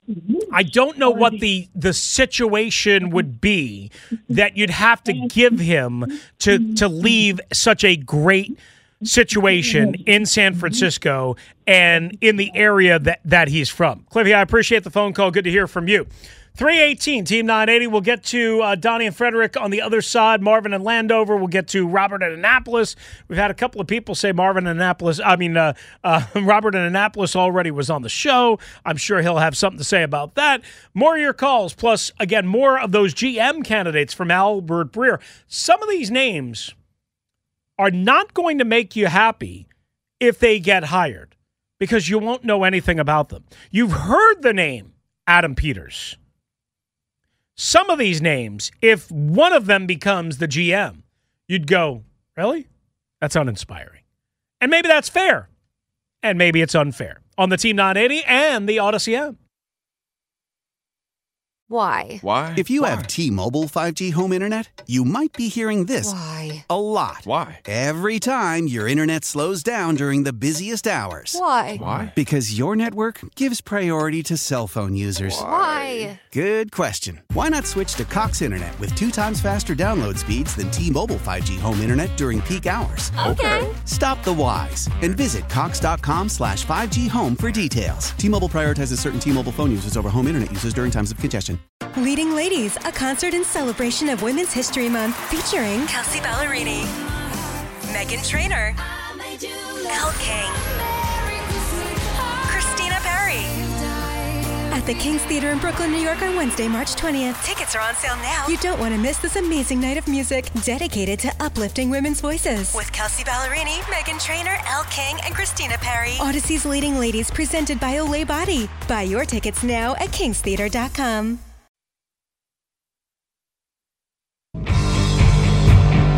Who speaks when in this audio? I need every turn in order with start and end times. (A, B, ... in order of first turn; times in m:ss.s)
0:00.5-0:36.7 A
0:37.8-0:39.6 A
0:40.2-0:46.2 A
0:47.6-0:52.7 A
0:53.2-0:54.0 A
0:54.6-0:55.5 A
0:56.2-0:59.3 A
1:01.7-1:02.2 B
1:02.2-1:03.0 C
1:02.5-1:15.6 D
1:06.0-1:06.6 B
1:07.2-1:07.6 C
1:11.3-1:11.9 B
1:11.8-1:12.1 C
1:15.3-1:16.1 C
1:15.4-1:16.2 B
1:16.3-1:31.6 D
1:23.2-1:23.7 B
1:23.2-1:23.6 C
1:31.9-1:36.9 E
1:37.1-1:37.6 B
1:37.8-1:38.8 E
1:38.8-1:44.8 B
1:39.9-1:40.6 E
1:42.5-1:43.5 E
1:44.7-2:01.4 E